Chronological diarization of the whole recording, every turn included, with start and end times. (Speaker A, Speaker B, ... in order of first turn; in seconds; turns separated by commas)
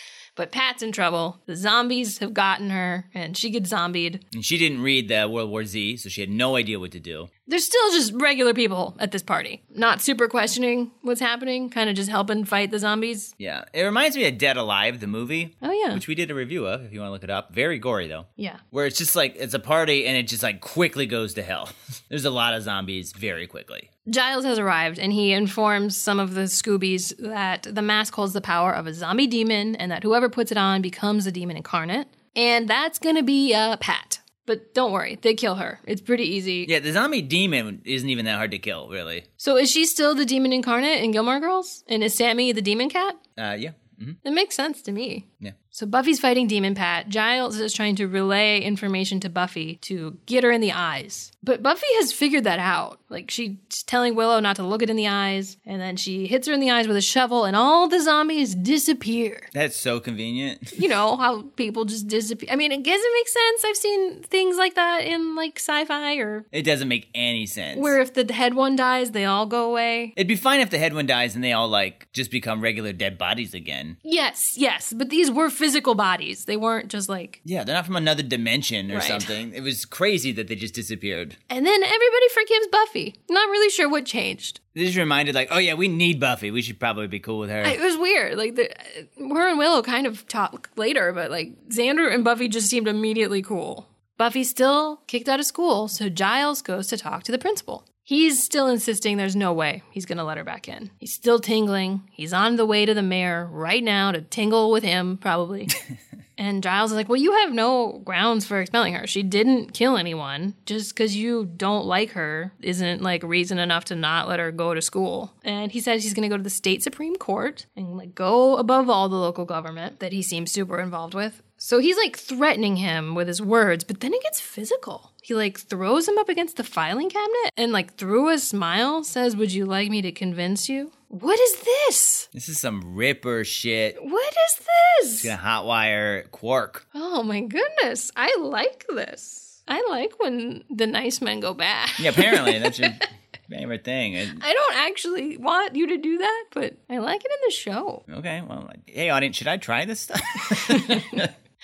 Speaker A: 0.4-4.2, Speaker B: 4.3-7.3, Speaker A: 7.5-13.3, Speaker B: 13.4-23.9, Speaker A: 15.6-16.0, Speaker A: 24.1-36.7, Speaker B: 36.7-39.3, Speaker A: 39.4-43.2, Speaker B: 43.4-44.2, Speaker A: 44.2-59.5, Speaker B: 59.5-60.8, Speaker A: 60.7-66.5, Speaker B: 66.5-68.0, Speaker A: 67.7-70.2, Speaker B: 70.2-74.0, Speaker A: 74.0-77.4, Speaker B: 77.5-81.4, Speaker A: 78.9-79.3, Speaker A: 81.5-84.6, Speaker B: 84.8-87.8, Speaker A: 87.6-105.8, Speaker A: 106.4-132.3, Speaker B: 132.3-134.0, Speaker A: 134.0-135.3, Speaker B: 135.2-136.8, Speaker A: 136.9-143.1, Speaker B: 142.0-144.4, Speaker A: 144.3-148.0, Speaker B: 148.1-151.3, Speaker A: 150.5-151.3